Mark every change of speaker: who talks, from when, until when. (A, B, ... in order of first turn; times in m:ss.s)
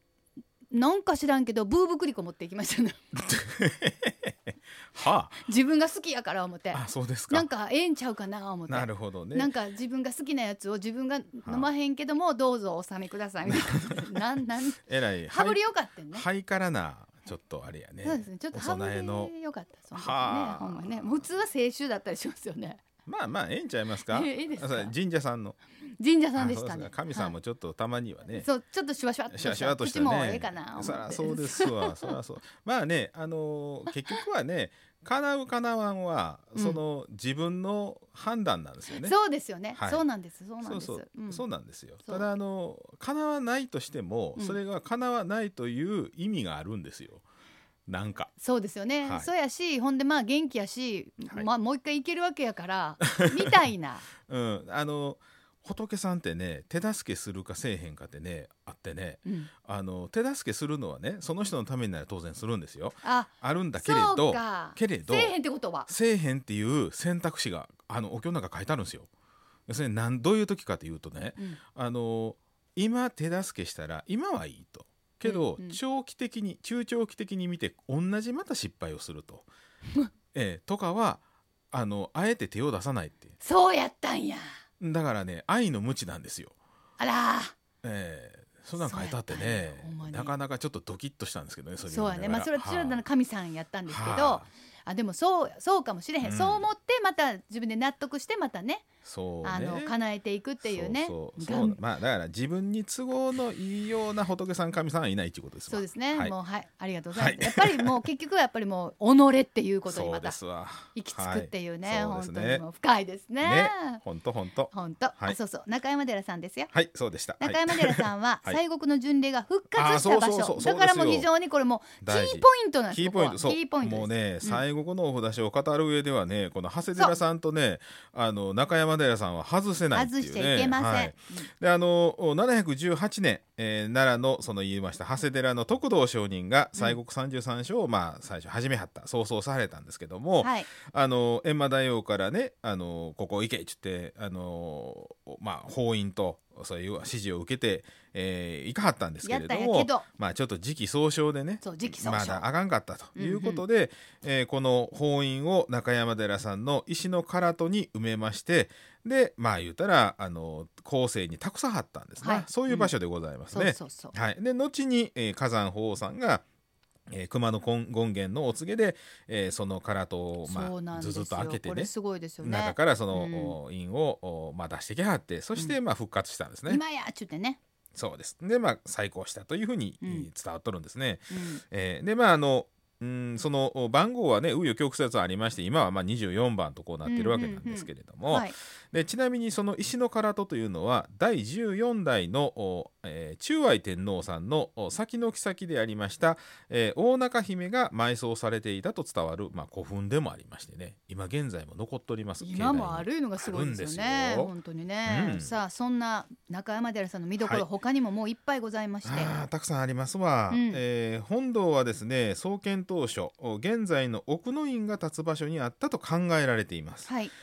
0:00.7-0:03.0 A
0:03.2-0:05.4 B
0:05.4-0:16.2 A
0:06.7-0:07.5 B
0:08.7-0:09.5 B
0:13.5-0:13.9 B
0:14.9-0:19.3 B
0:18.0-0:22.8 A
0:19.9-0:21.2 B
0:23.1-0:25.6 B
0:24.1-0:24.9 A
0:26.0-0:27.3 A
0:26.4-0:28.5 B
0:28.4-0:32.2 A
0:29.3-0:39.2 B
0:33.9-0:34.2 A
0:36.6-0:36.8 A
0:38.9-0:41.4 A
0:39.7-0:40.0 B
0:40.6-0:47.2 B
0:47.9-0:48.3 B
0:48.4-0:54.1 A
0:49.0-0:49.3 B
0:54.2-1:05.4 B
0:59.2-0:59.5 A
1:03.0-1:05.9 A
1:05.9-1:09.1 B
1:09.7-1:19.5 B
1:15.2-1:15.8 A
1:20.3-1:23.4 B
1:23.4-1:24.5 A
1:24.8-1:26.6 B
1:27.0-1:27.5 A
1:27.8-1:33.0 B
1:28.8-1:30.4 A
1:31.9-1:38.9 A
1:33.9-1:34.5 B
1:36.2-1:36.7 B
1:39.0-1:40.0 B
1:39.4-1:41.8 A
1:40.6-1:46.4 B
1:45.7-1:50.4 A
1:47.2-1:48.0 B
1:49.9-1:52.6 B
1:50.9-1:54.0 A
1:53.4-1:55.4 B
1:54.7-1:56.7 A
1:56.7-1:58.6 B
1:57.4-2:04.6 A
1:59.8-2:01.3 B
2:02.0-2:46.4 B
2:09.9-2:11.5 A
2:20.4-2:20.7 A
2:29.2-2:30.1 A
2:31.6-2:32.4 A
2:33.2-2:33.6 A
2:42.2-2:42.9 A
2:43.5-2:44.1 A
2:47.1-2:56.8 B
2:50.4-2:53.6 A
2:56.7-2:57.6 A
2:58.0-3:24.5 B
3:00.0-3:00.3 A
3:01.3-3:01.6 A
3:07.0-3:08.6 A
3:22.4-3:29.4 A
3:25.1-3:25.6 B
3:27.4-3:27.6 B
3:29.0-3:37.1 B
3:30.5-3:30.8 A
3:37.0-3:37.3 A